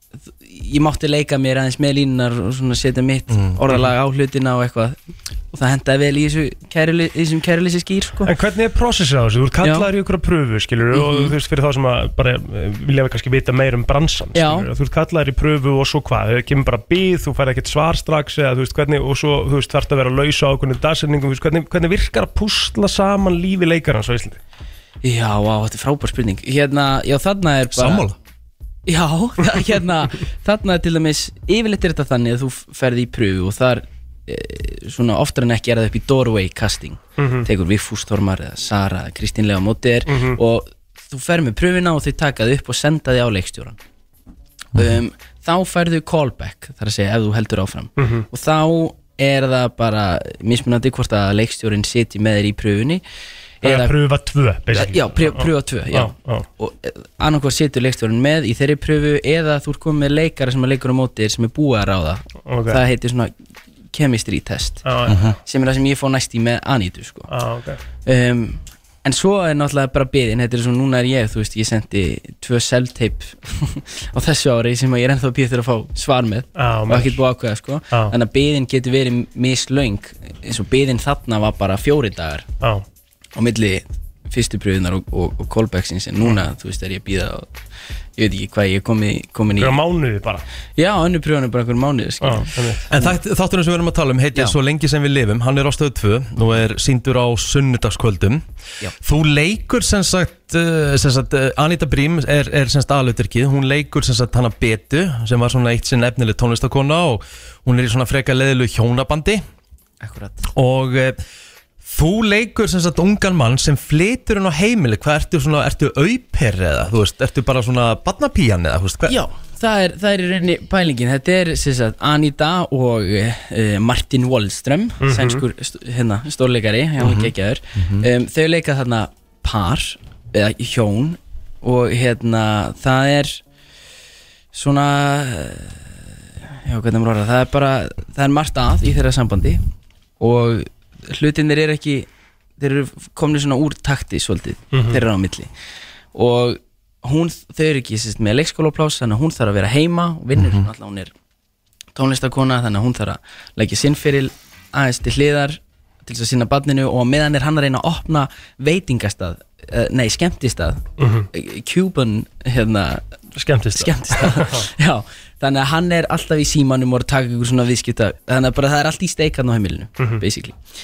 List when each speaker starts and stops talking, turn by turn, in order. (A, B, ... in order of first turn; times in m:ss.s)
0:00.4-0:05.0 A
0:03.3-0:03.6 B
0:05.5-0:08.3 A
0:08.2-0:24.4 C
0:09.6-0:09.9 A
0:10.9-0:11.3 A
0:14.3-0:14.7 A
0:25.0-0:28.1 A
0:27.7-0:28.2 B
0:28.9-0:43.8 A
0:37.2-0:37.5 C
0:40.1-0:40.4 C
0:44.7-0:53.0 A
0:48.0-0:48.2 C
0:53.6-0:54.0 A
0:53.6-0:56.4 C
0:54.7-1:03.3 A
1:02.5-1:02.8 C
1:03.9-1:04.8 A
1:04.8-1:05.4 C
1:05.1-1:05.3 B
1:05.4-1:07.3 A
1:07.3-1:07.8 C
1:08.0-1:22.4 A
1:16.6-1:17.2 C
1:23.3-1:27.5 A
1:28.2-1:29.8 A
1:29.6-1:30.4 C
1:30.8-1:33.1 A
1:32.2-1:32.9 C
1:32.9-1:38.4 B
1:39.0-1:49.4 B
1:50.0-1:50.4 A
1:50.5-1:51.2 B
1:51.8-1:59.2 B
1:59.0-2:13.4 A
2:05.0-2:05.4 C
2:07.0-2:08.1 B
2:14.5-2:15.8 A
2:16.6-2:19.6 A
2:20.2-2:25.5 A
2:24.7-2:25.0 C
2:26.1-2:31.1 A
2:30.3-2:30.7 B
2:31.9-2:43.1 A
2:41.0-2:41.3 C
2:43.4-2:44.6 C
2:43.7-2:50.6 A
2:50.0-2:50.2 C